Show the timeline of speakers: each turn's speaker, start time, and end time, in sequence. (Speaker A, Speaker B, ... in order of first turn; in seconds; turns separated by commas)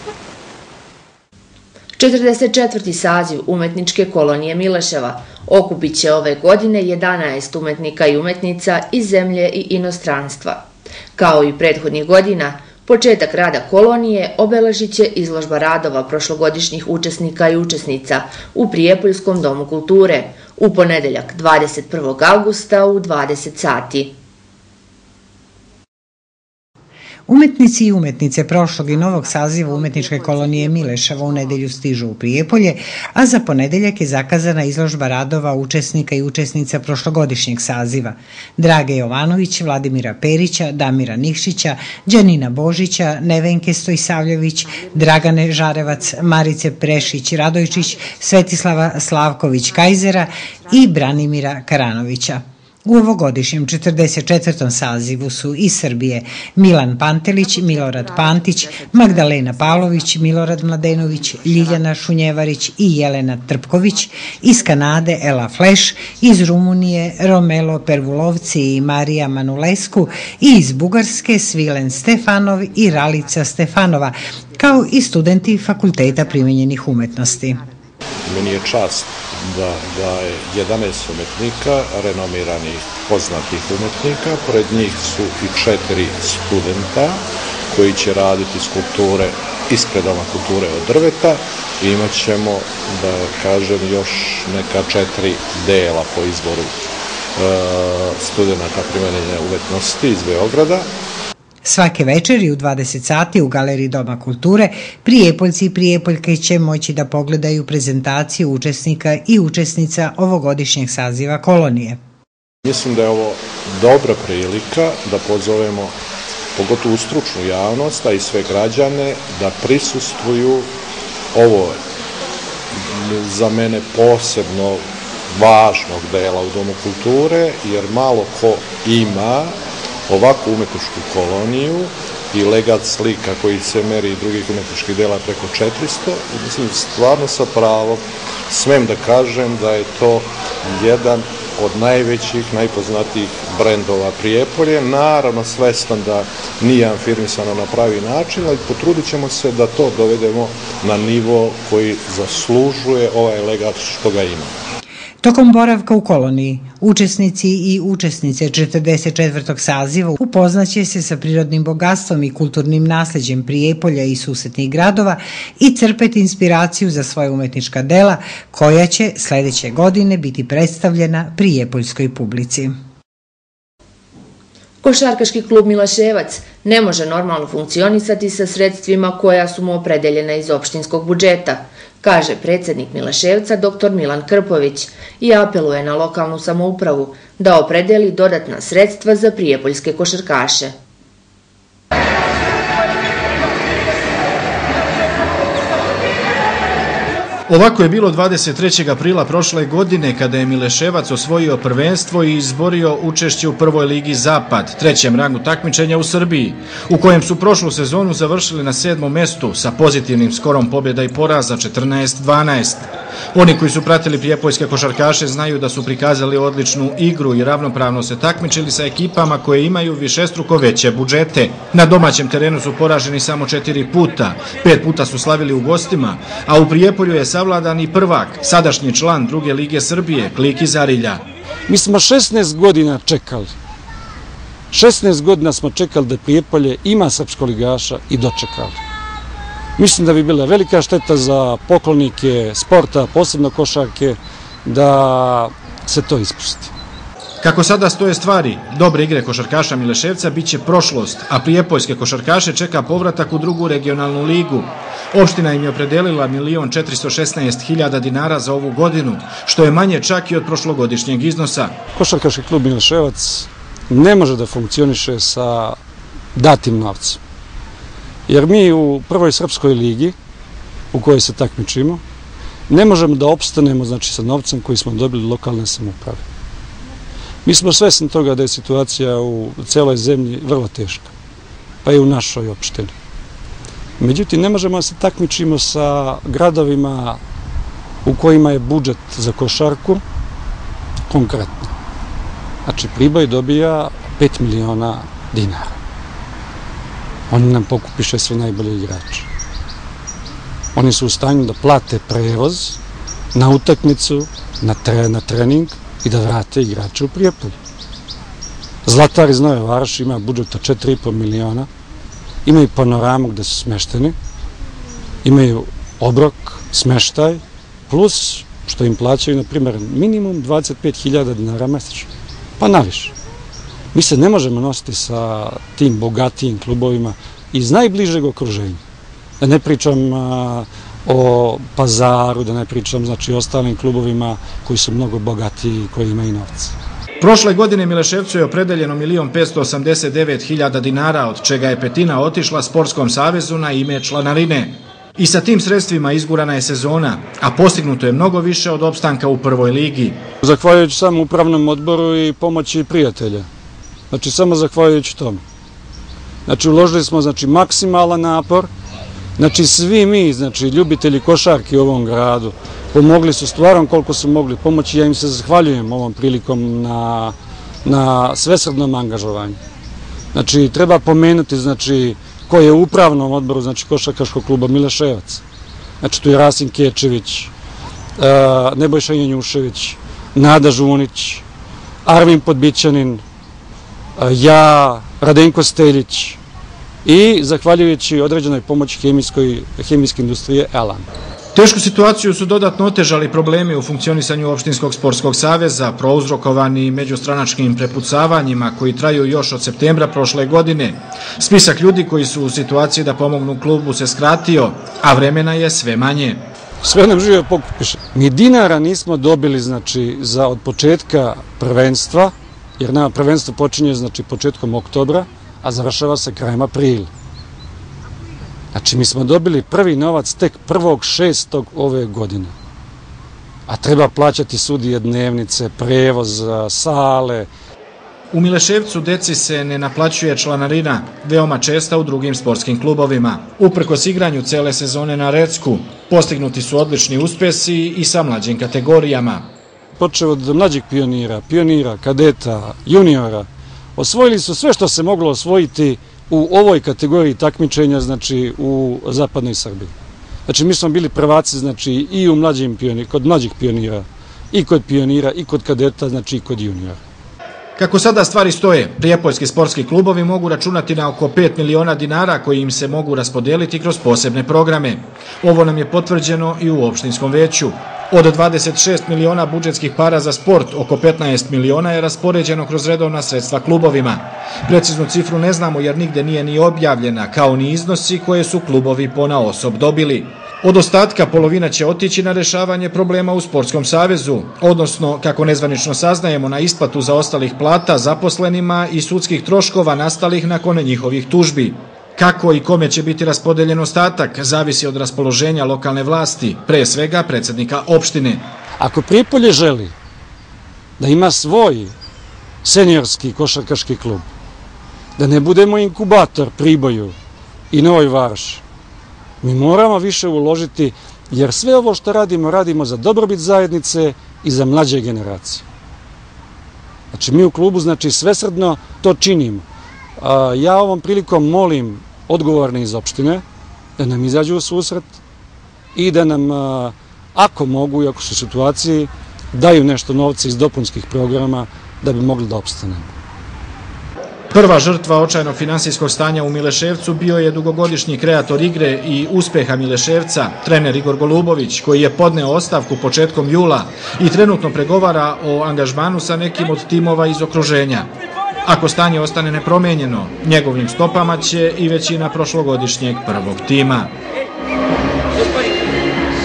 Speaker A: 2.0-10.6, Speaker A: 11.2-24.1, Speaker B: 27.3-77.6, Speaker C: 78.2-96.7, Speaker C: 97.3-100.9, Speaker B: 101.6-112.0, Speaker C: 112.6-115.9, Speaker C: 116.5-120.7, Speaker C: 121.3-121.8, Speaker C: 122.8-129.5, Speaker C: 130.1-154.5, Speaker B: 155.2-172.7, Speaker A: 174.8-190.7, Speaker D: 197.5-231.2, Speaker E: 231.7-233.5, Speaker E: 234.7-238.8, Speaker E: 239.8-246.7, Speaker D: 247.4-261.7, Speaker E: 261.9-265.8, Speaker E: 266.3-267.2, Speaker E: 268.3-270.1, Speaker E: 270.9-272.0, Speaker E: 272.7-276.2, Speaker E: 277.4-281.1, Speaker E: 281.8-282.9, Speaker E: 284.0-287.2, Speaker E: 288.0-290.0, Speaker E: 291.1-291.7, Speaker E: 292.6-295.8, Speaker E: 297.3-299.3, Speaker E: 300.7-302.8, Speaker E: 303.3-307.5, Speaker E: 308.8-311.7, Speaker E: 312.4-314.1, Speaker E: 315.2-323.1, Speaker E: 323.9-328.8, Speaker E: 329.4-336.7, Speaker D: 337.2-350.2, Speaker E: 350.4-353.5, Speaker E: 354.1-355.4, Speaker E: 356.4-358.7, Speaker E: 359.4-369.6, Speaker E: 370.3-375.4, Speaker E: 376.0-377.5, Speaker E: 378.2-381.4, Speaker E: 382.0-383.2, Speaker E: 384.2-386.4, Speaker E: 387.0-391.1, Speaker D: 391.5-406.4, Speaker E: 406.8-417.1, Speaker E: 418.7-422.5, Speaker E: 423.7-427.5, Speaker D: 428.3-439.5, Speaker E: 440.0-449.9, Speaker E: 450.4-457.0, Speaker D: 457.8-498.4, Speaker E: 498.8-499.9, Speaker E: 501.0-501.9, Speaker E: 502.6-504.2, Speaker E: 505.2-507.1, Speaker E: 507.7-508.6, Speaker E: 509.4-515.6, Speaker E: 517.1-519.6, Speaker E: 520.2-523.4, Speaker E: 524.0-525.1, Speaker E: 525.9-533.1, Speaker D: 534.5-548.1, Speaker D: 548.6-554.1